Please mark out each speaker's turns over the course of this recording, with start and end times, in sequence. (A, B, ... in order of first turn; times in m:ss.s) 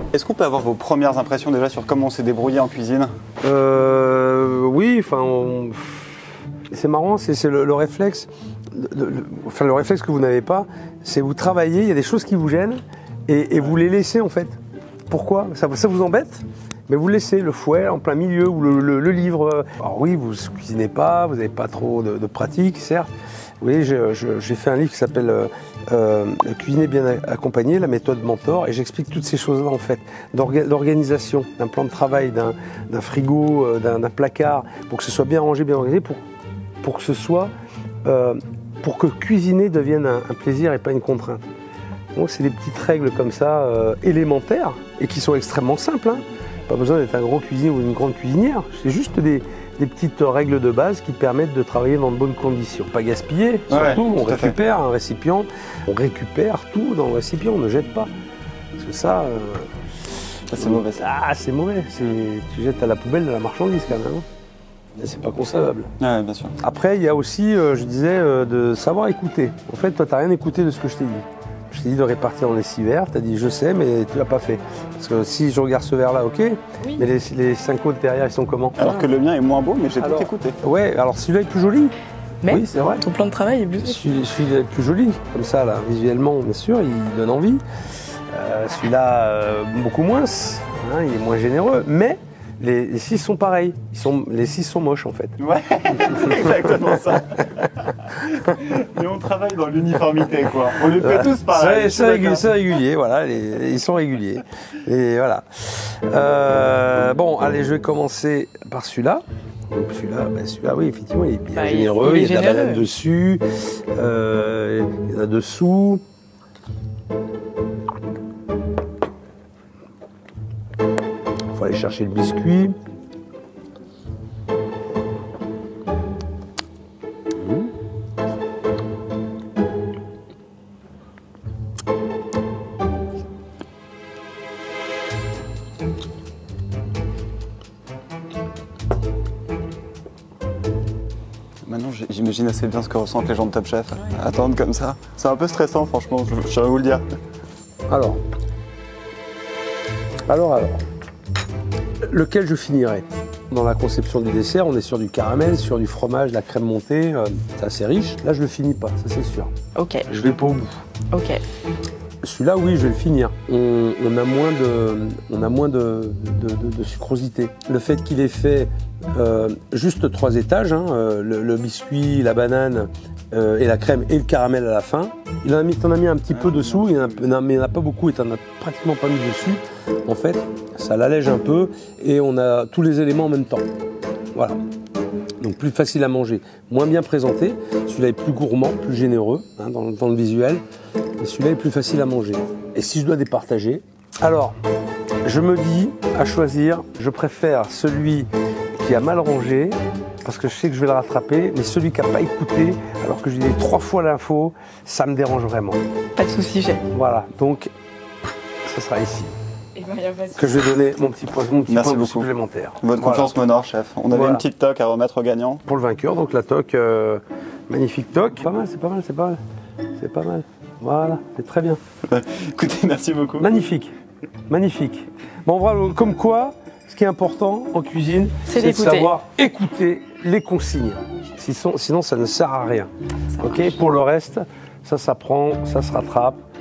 0:00.1-0:03.1 A
0:03.4-0:14.6 B
0:15.1-0:23.1 B
0:23.6-0:36.2 B
0:36.8-0:37.5 B
0:38.0-0:41.4 B
0:42.1-0:58.1 B
0:53.7-0:54.6 A
0:58.8-0:59.7 B
1:00.5-1:01.0 A
1:00.6-1:04.2 B
1:05.0-1:05.9 B
1:06.0-1:06.6 A
1:06.6-1:18.8 B
1:18.8-1:20.6 A
1:20.0-1:21.9 B
1:22.4-1:24.2 C
1:22.4-1:23.0 B
1:23.8-1:27.6 B
1:28.3-1:35.4 B
1:35.4-1:42.5 A
1:40.9-1:53.4 B
1:51.5-1:52.8 C
1:54.0-1:56.0 B
2:01.5-2:02.8 B
2:07.4-2:07.7 B
2:21.6-2:27.0 A
2:27.9-2:28.2 B
2:30.3-2:30.8 B
2:32.1-2:39.5 B
2:39.7-2:40.1 C
2:40.1-2:40.8 B
2:41.1-2:41.4 C
2:42.2-3:03.6 B
2:56.3-2:57.3 A
3:05.4-3:10.6 B
3:11.2-3:14.6 B
3:15.2-3:25.8 B
3:26.2-3:26.8 C
3:26.9-3:27.7 B
3:28.6-3:29.3 B
3:29.7-3:30.7 C
3:30.4-3:33.3 B
3:31.7-3:35.6 A
3:34.1-3:34.4 B
3:35.6-3:39.4 B
3:40.0-3:41.8 B
3:42.1-3:43.5 A
3:43.4-3:43.9 B
3:44.5-3:56.4 B
3:48.4-3:49.1 C
3:53.3-3:53.8 C